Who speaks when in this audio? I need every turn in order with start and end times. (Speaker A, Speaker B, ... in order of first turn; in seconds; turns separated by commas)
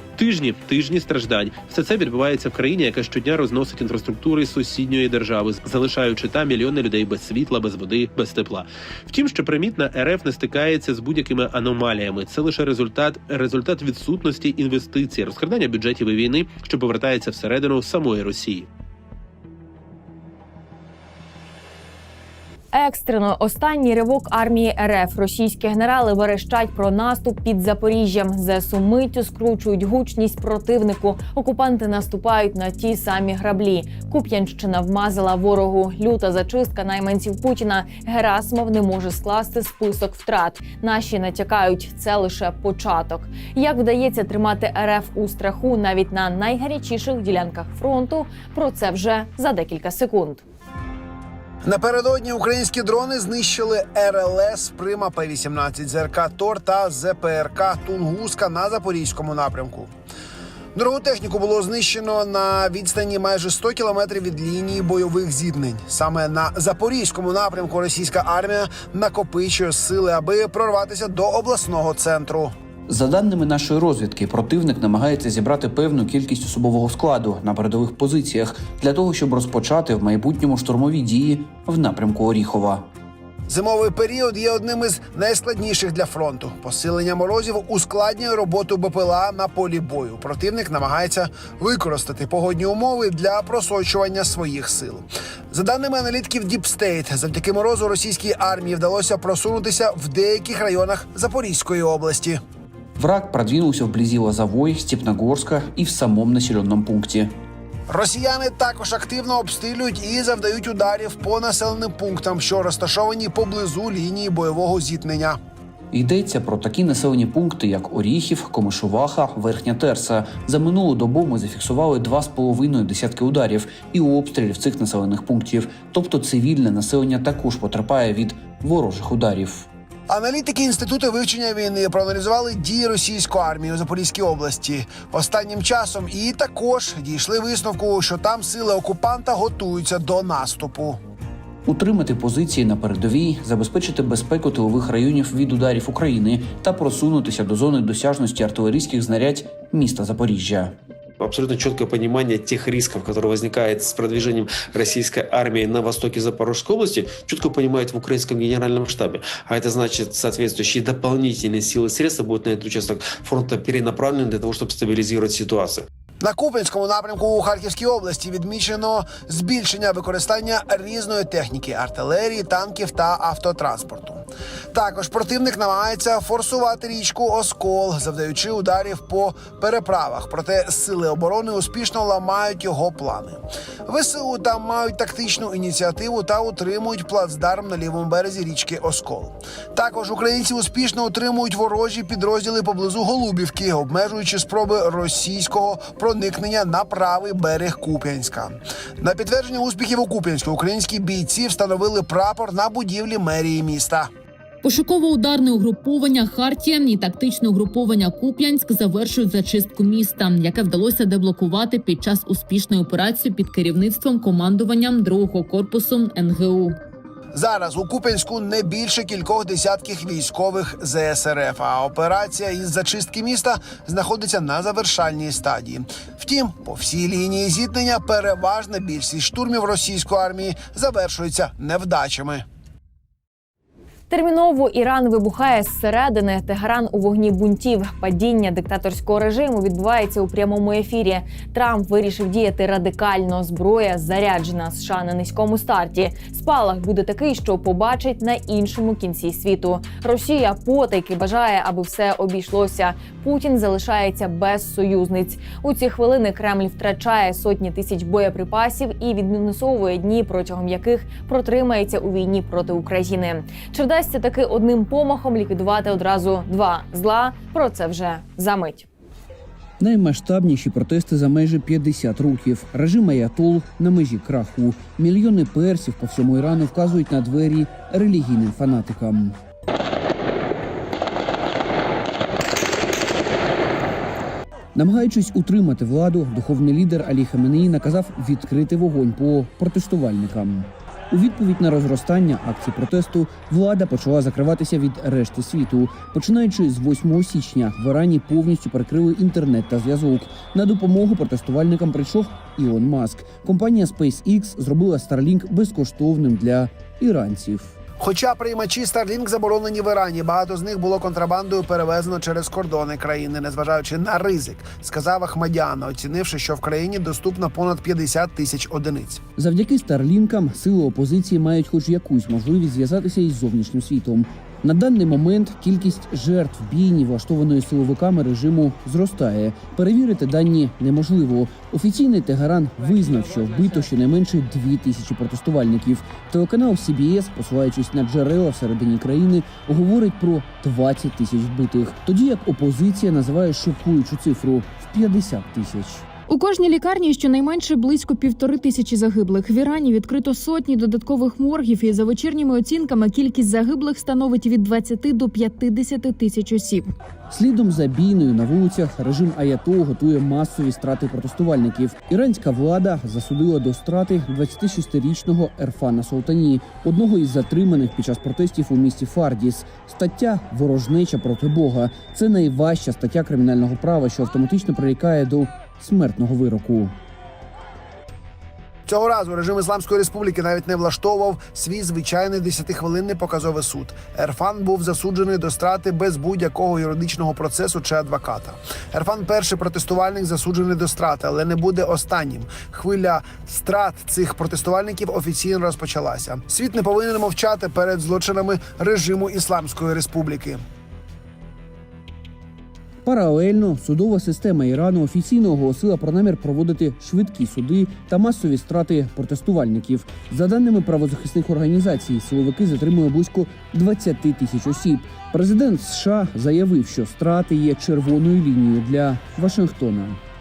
Speaker A: 0.2-18.7, Speaker B: 22.7-50.4, Speaker C: 51.6-59.9, Speaker C: 60.8-72.5, Speaker D: 72.9-82.9, Speaker C: 83.5-102.4, Speaker D: 103.0-107.3, Speaker C: 107.9-115.4, Speaker D: 115.9-129.7, Speaker C: 130.1-141.0, Speaker D: 141.7-150.8, Speaker E: 151.2-165.9, Speaker C: 166.2-204.1, Speaker F: 204.6-216.8, Speaker C: 217.3-232.4, Speaker B: 234.1-268.9, Speaker D: 269.8-279.4, Speaker D: 284.8-307.8, Speaker C: 308.0-319.2, Speaker D: 319.4-346.1, Speaker G: 346.3-356.9, Speaker D: 357.3-376.9, Speaker C: 378.9-400.6, Speaker D: 403.0-420.2